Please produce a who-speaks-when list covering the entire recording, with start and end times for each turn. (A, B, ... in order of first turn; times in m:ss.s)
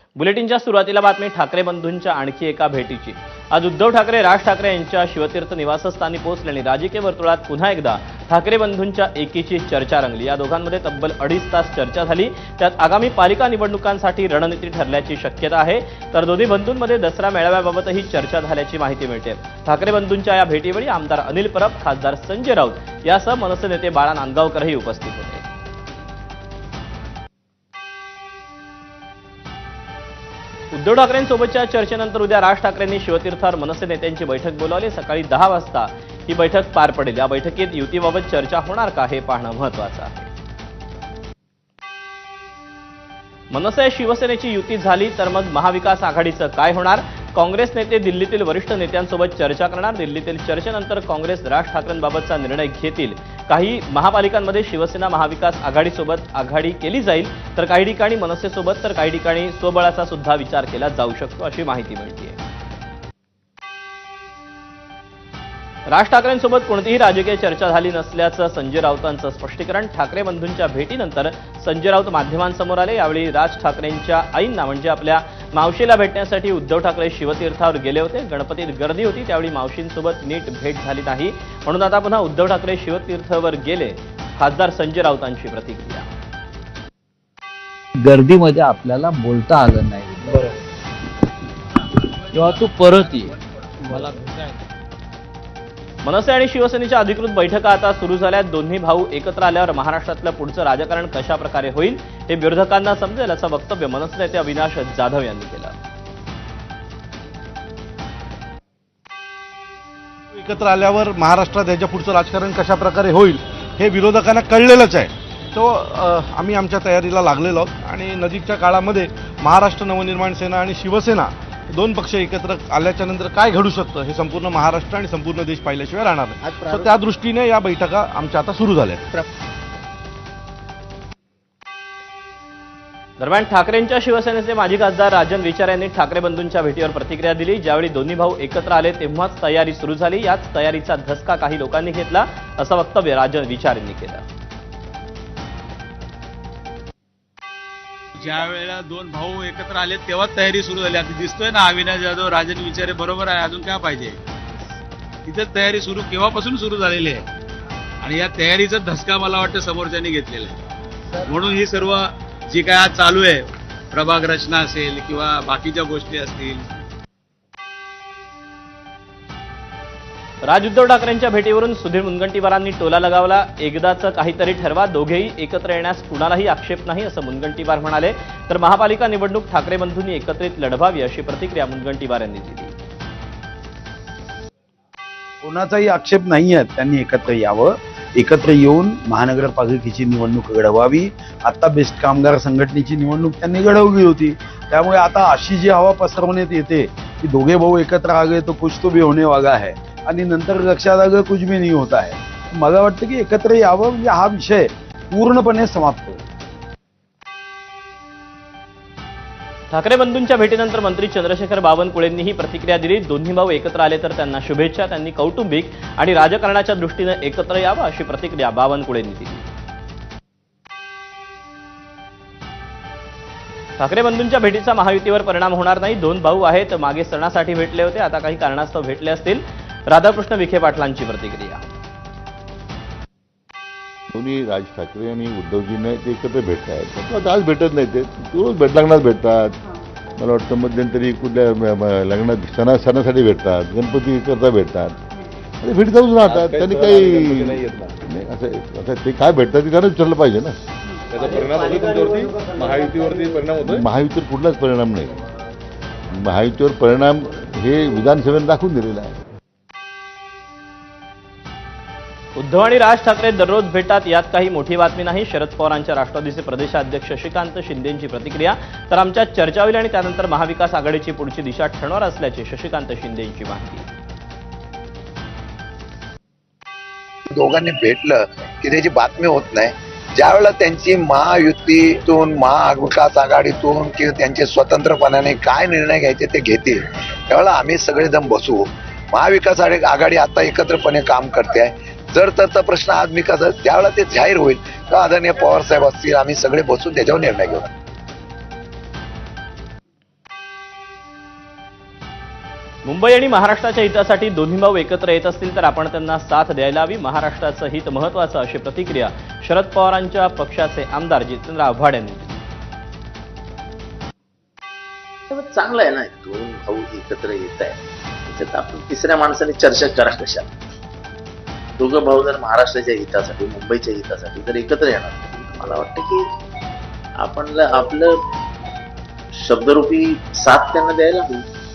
0:00.2-0:25.4 A
0:30.7-0:40.3 A
0:43.5-1:02.4 A
1:05.9-1:26.1 A
1:28.2-1:30.1 B
1:32.4-1:33.2 B
1:36.0-1:45.8 A
1:50.3-2:09.0 C
2:13.2-2:24.2 A
2:28.2-2:34.2 D
2:35.3-2:37.2 D
2:38.0-2:40.5 D
2:41.3-2:46.7 D
2:50.4-3:02.7 A
3:05.4-3:26.2 E
3:29.7-3:39.5 A
3:43.8-3:51.7 A
3:54.1-3:59.6 F
4:00.2-4:05.0 F
4:05.6-4:10.5 F
4:06.2-4:07.9 G
4:11.1-4:13.8 G
4:13.6-4:15.2 F
4:16.1-4:19.2 F
4:22.4-4:33.9 A
4:37.3-4:57.6 H
5:02.8-5:12.4 A
5:15.3-5:20.5 I
5:21.8-5:26.2 I
5:27.2-5:28.2 I
5:29.4-5:31.4 I